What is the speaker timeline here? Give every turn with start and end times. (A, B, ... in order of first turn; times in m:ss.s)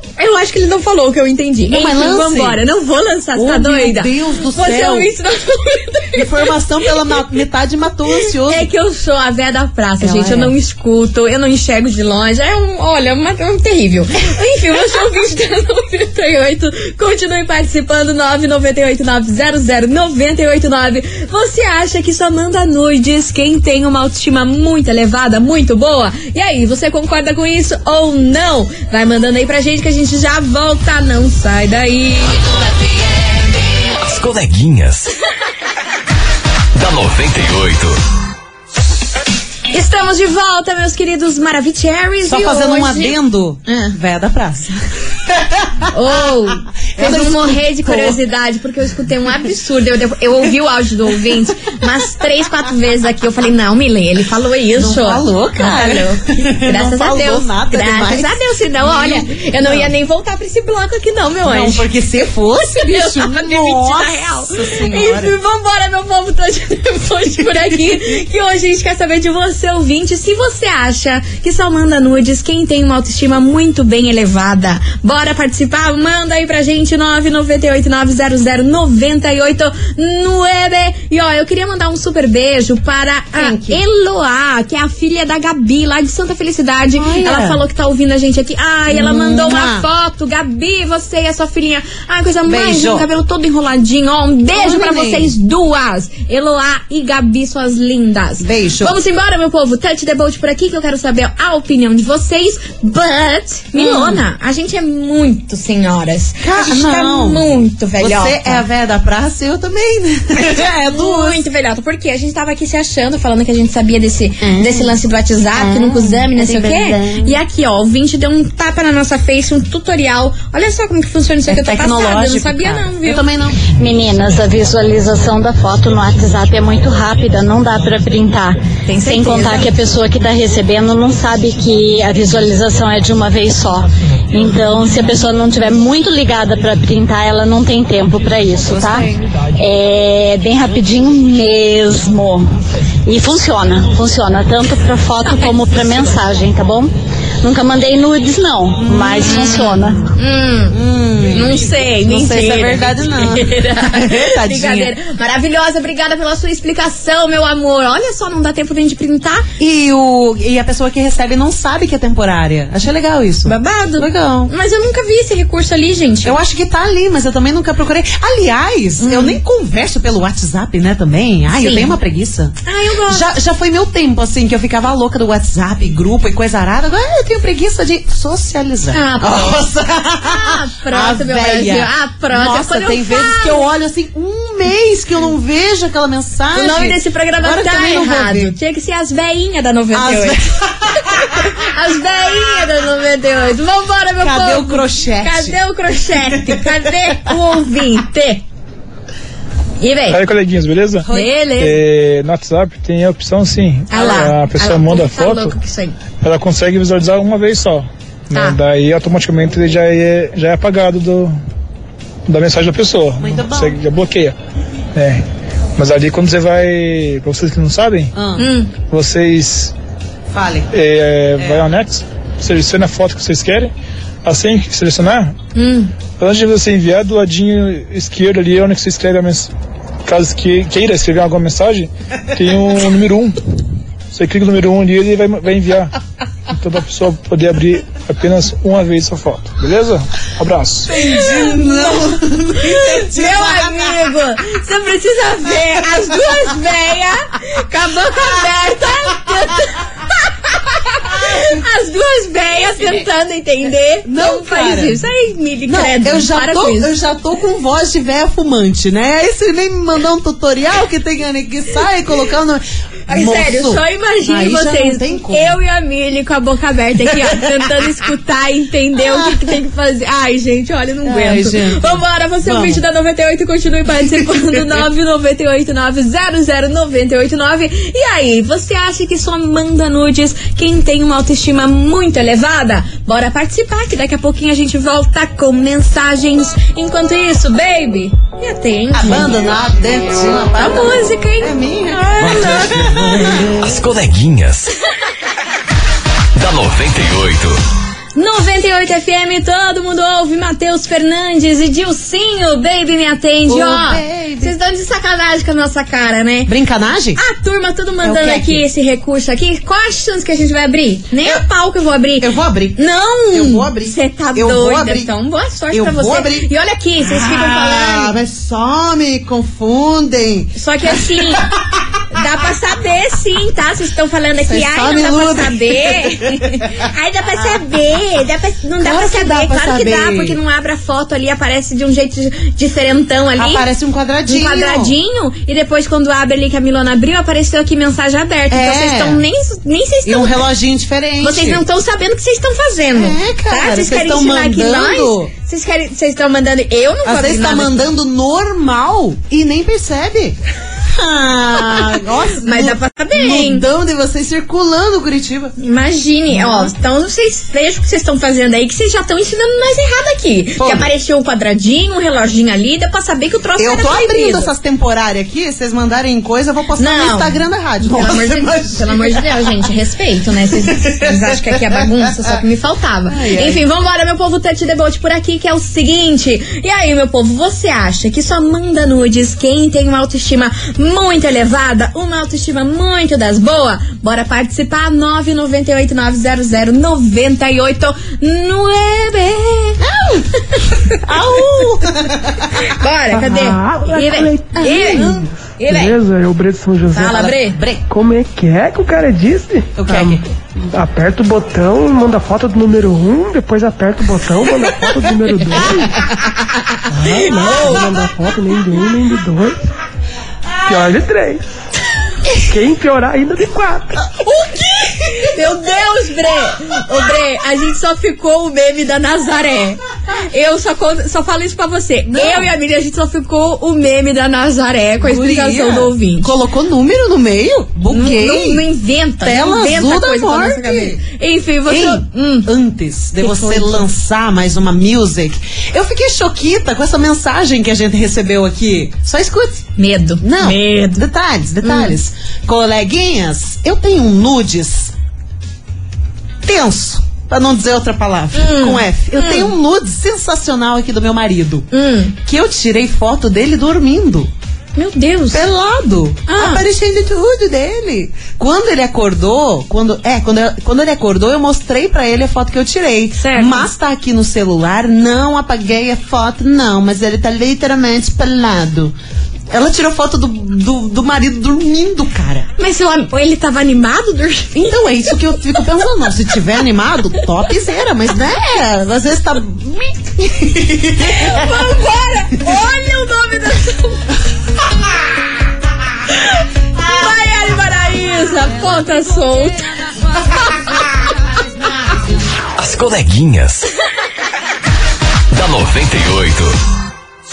0:00.2-0:07.1 A
0:01.7-0:02.6 B
0:03.4-0:05.1 B
0:06.1-0:08.7 B
0:08.3-0:32.5 A
0:10.0-0:10.6 B
0:34.0-0:35.1 C
0:36.8-0:38.0 C
0:39.7-0:43.2 A
0:42.2-0:46.4 B
0:43.7-0:44.0 A
0:45.9-1:01.9 A
0:47.0-0:48.2 B
0:54.8-0:59.9 B
1:01.4-1:05.4 B
1:02.7-1:48.6 A
1:07.4-1:08.2 B
1:23.4-1:23.8 B
1:27.0-1:27.6 B
1:28.9-1:29.9 B
1:32.5-1:33.1 B
1:34.5-1:35.3 B
1:38.4-1:39.0 B
1:43.7-1:44.2 B
1:46.4-1:51.4 B
1:50.9-2:03.3 A
1:54.4-1:55.0 B
1:55.6-1:57.4 B
2:01.5-2:03.6 B
2:03.6-2:22.5 D
2:08.9-2:09.8 A
2:18.7-2:19.2 B
2:23.0-2:30.1 D
2:28.8-2:29.6 B
2:29.2-2:39.5 A
2:30.7-2:34.9 B
2:39.6-2:44.5 B
2:43.5-2:46.4 A
2:46.2-3:08.5 B
2:49.0-2:49.4 A
2:51.5-2:52.0 A
2:52.6-2:53.3 A
2:58.9-2:59.6 A
3:00.2-3:03.7 A
3:06.5-3:10.4 A
3:09.9-3:11.5 B
3:11.0-3:18.4 A
3:14.2-3:15.6 B
3:16.2-3:17.3 B
3:19.8-3:20.2 A
3:20.1-3:25.6 E
3:21.1-3:21.3 B
3:21.1-3:21.8 A
3:23.9-3:26.0 A
3:26.2-3:31.4 E
3:32.3-3:34.4 E
3:33.2-3:33.8 B
3:35.0-3:35.2 E
3:35.8-3:38.1 E
3:38.2-3:38.5 B
3:38.4-3:38.7 A
3:38.8-3:39.7 E
3:40.3-3:40.7 B
3:40.7-3:43.7 E
3:41.4-3:41.7 B
3:44.2-3:45.4 E
3:45.6-3:45.9 A
3:46.2-3:49.5 E
3:50.0-3:53.4 E
3:54.1-3:55.9 E
3:56.5-4:00.9 E
4:00.9-4:04.2 B
4:01.0-4:16.9 A
4:06.0-4:06.3 B
4:14.0-4:15.0 B
4:15.7-4:25.6 B
4:23.1-4:49.4 A
4:27.1-4:27.8 B
4:29.0-4:29.6 B
4:31.0-4:32.8 B
4:34.2-4:34.8 B
4:48.9-4:53.8 B
4:50.6-4:53.0 A
4:53.6-4:54.7 C
4:56.4-4:57.6 C
4:58.2-5:06.5 A
5:03.5-5:04.5 B
5:06.5-5:07.2 B
5:07.2-5:18.1 A
5:08.0-5:08.6 B
5:12.2-5:15.1 B
5:15.7-5:16.5 B
5:17.0-5:21.6 B
5:20.6-5:21.5 A
5:22.1-5:33.7 A
5:24.4-5:26.6 B
5:27.4-5:27.6 B
5:28.8-5:30.4 B
5:33.4-5:35.0 B
5:34.3-5:40.5 A
5:38.5-5:39.2 B
5:40.1-5:41.6 B
5:41.2-5:47.8 A
5:42.9-5:45.3 B
5:47.0-5:55.6 B
5:52.4-5:53.6 A
5:55.6-6:04.5 A
5:56.3-5:56.7 B
6:00.6-6:00.9 B
6:03.6-6:09.7 B
6:06.8-6:29.8 A
6:10.5-6:12.4 B
6:13.1-6:13.6 B
6:29.8-6:30.3 B
6:30.5-6:31.6 A
6:31.0-6:32.6 B
6:32.5-6:36.0 A
6:33.1-6:37.3 F
6:34.7-6:35.0 B
6:36.9-6:37.6 A
6:37.0-6:37.8 B
6:37.9-6:46.0 F
6:39.8-6:40.2 B
6:46.9-6:49.6 F
6:47.4-6:47.8 A
6:50.7-6:51.4 F
6:52.4-6:54.1 F
6:54.2-7:06.3 A
7:02.1-7:02.5 B
7:05.0-7:08.6 B
7:07.9-7:12.5 A
7:09.2-7:11.0 B
7:11.7-7:19.7 B
7:13.2-7:13.9 A
7:19.8-7:21.0 A
7:20.2-7:24.9 B
7:21.6-7:22.0 A
7:26.4-7:34.3 B
7:28.4-7:29.5 A
7:31.7-7:32.1 A
7:34.8-7:35.4 A
7:35.3-7:49.0 B
7:36.3-7:36.6 A
7:43.2-7:43.7 A
7:49.5-7:52.5 B
7:52.6-7:55.6 A
7:54.6-8:01.7 B
8:01.0-8:04.0 A
8:06.1-8:09.7 A
8:12.6-8:13.7 C
8:15.3-8:16.6 C